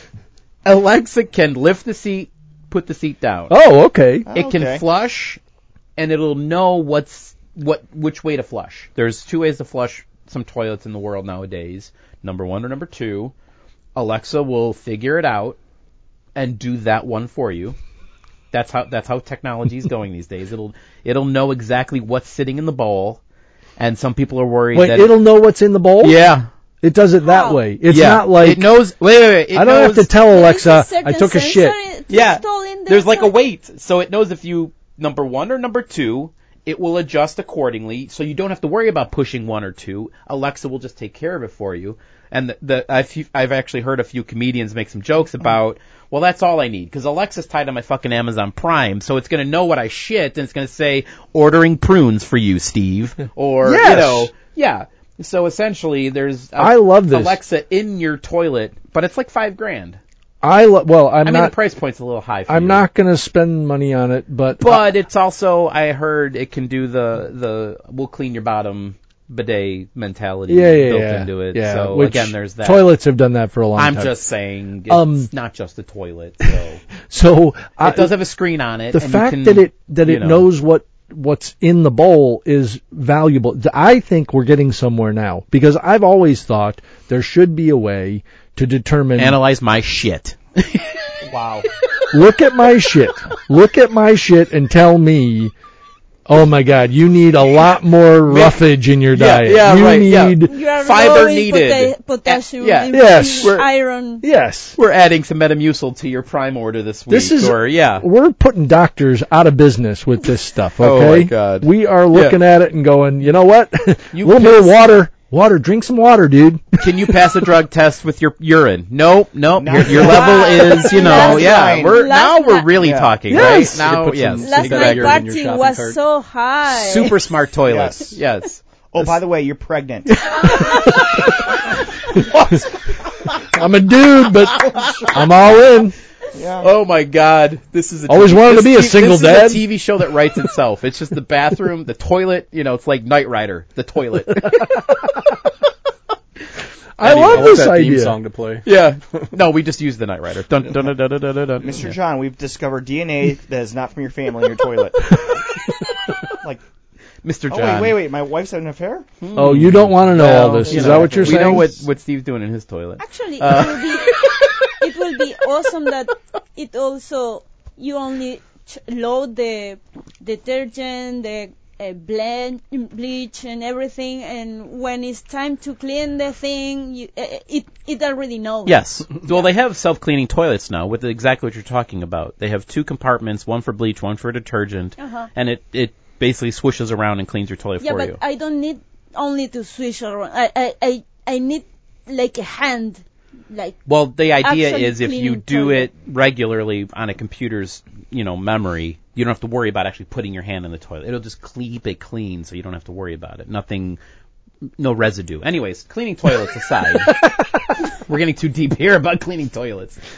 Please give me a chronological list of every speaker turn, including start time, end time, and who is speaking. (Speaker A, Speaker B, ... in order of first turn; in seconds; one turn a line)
Speaker A: 0.7-3.5
Speaker B: 3.5-4.3
Speaker C: 4.3-4.8
Speaker A: 4.3-5.4
Speaker A: 6.0-13.3
Speaker A: 13.9-15.6
Speaker A: 16.4-17.8
Speaker A: 18.5-23.2
Speaker A: 23.8-25.2
Speaker B: 24.7-26.2
Speaker A: 26.0-26.5
Speaker B: 26.8-28.8
Speaker D: 27.2-27.6
Speaker A: 27.9-30.1
Speaker B: 29.5-31.8
Speaker D: 30.2-33.3
Speaker A: 32.1-60.0
Speaker B: 53.6-54.3
Speaker B: 56.6-57.4
Speaker B: 60.4-61.5
Speaker A: 61.2-62.9
Speaker B: 62.5-64.9
Speaker A: 64.6-72.9
Speaker B: 70.5-74.2
Speaker A: 73.8-76.8
Speaker B: 74.9-75.3
Speaker B: 77.1-78.2
Speaker A: 77.8-80.5
Speaker B: 78.9-89.4
Speaker A: 89.2-91.0
Speaker C: 91.2-91.7
Speaker B: 92.1-95.5
Speaker B: 96.3-100.5
Speaker A: 98.3-103.7
Speaker D: 100.5-104.2
Speaker B: 102.9-103.7
Speaker B: 104.2-104.8
Speaker A: 104.8-108.0
Speaker B: 107.1-117.2
Speaker A: 110.8-112.4
Speaker A: 114.1-114.9
Speaker A: 116.8-125.2
Speaker C: 119.6-122.0
Speaker D: 120.0-122.7
Speaker C: 122.8-123.3
Speaker B: 123.3-123.8
Speaker E: 123.3-126.0
Speaker D: 124.4-127.2
Speaker A: 126.7-128.6
Speaker C: 127.7-128.2
Speaker C: 128.9-130.9
Speaker B: 130.3-131.6
Speaker B: 132.1-132.6
Speaker B: 133.4-136.0
Speaker C: 136.3-136.7
Speaker A: 136.6-144.8
Speaker B: 138.1-139.7
Speaker B: 144.5-145.3
Speaker B: 147.0-148.2
Speaker A: 147.0-147.6
Speaker E: 147.1-148.7
Speaker A: 148.6-152.0
Speaker C: 151.6-155.5
Speaker A: 157.2-158.0
Speaker C: 157.5-159.1
Speaker A: 159.2-164.7
Speaker B: 159.3-161.7
Speaker C: 160.6-161.6
Speaker D: 163.0-179.3
Speaker A: 178.7-188.2
Speaker D: 185.0-185.3
Speaker D: 187.8-193.8
Speaker A: 193.9-204.0
Speaker D: 194.4-195.9
Speaker A: 204.8-207.2
Speaker A: 207.9-210.0